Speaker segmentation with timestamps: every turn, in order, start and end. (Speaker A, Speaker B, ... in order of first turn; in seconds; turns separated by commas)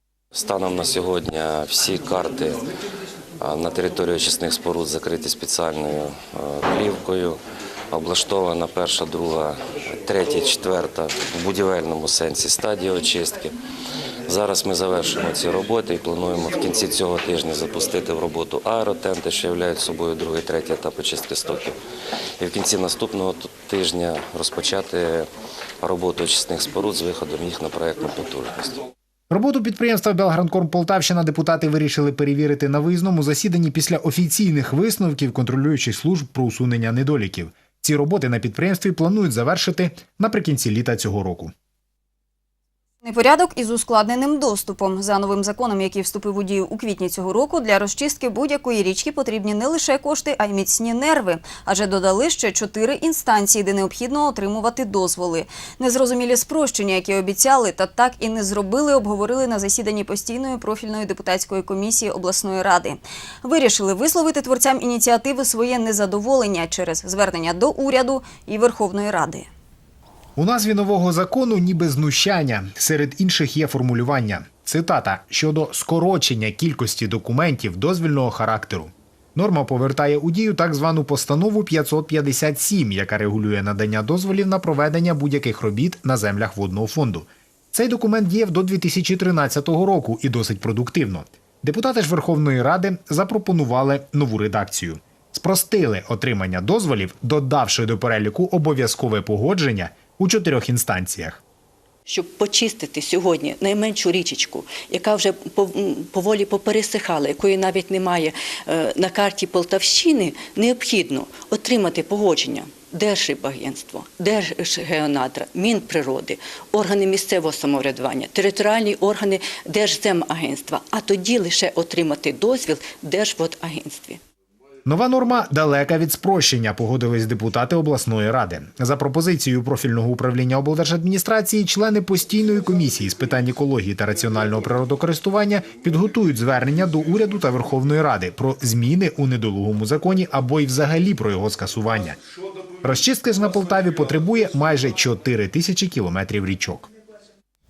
Speaker A: 0.3-2.6, Speaker A: 3.4-7.4, Speaker A: 7.9-13.5, Speaker A: 14.3-21.8, Speaker A: 22.4-25.3, Speaker A: 25.8-28.9, Speaker B: 29.3-41.5, Speaker C: 43.0-69.5, Speaker B: 70.3-101.4, Speaker D: 102.0-124.2, Speaker B: 124.8-142.2, Speaker B: 142.8-146.9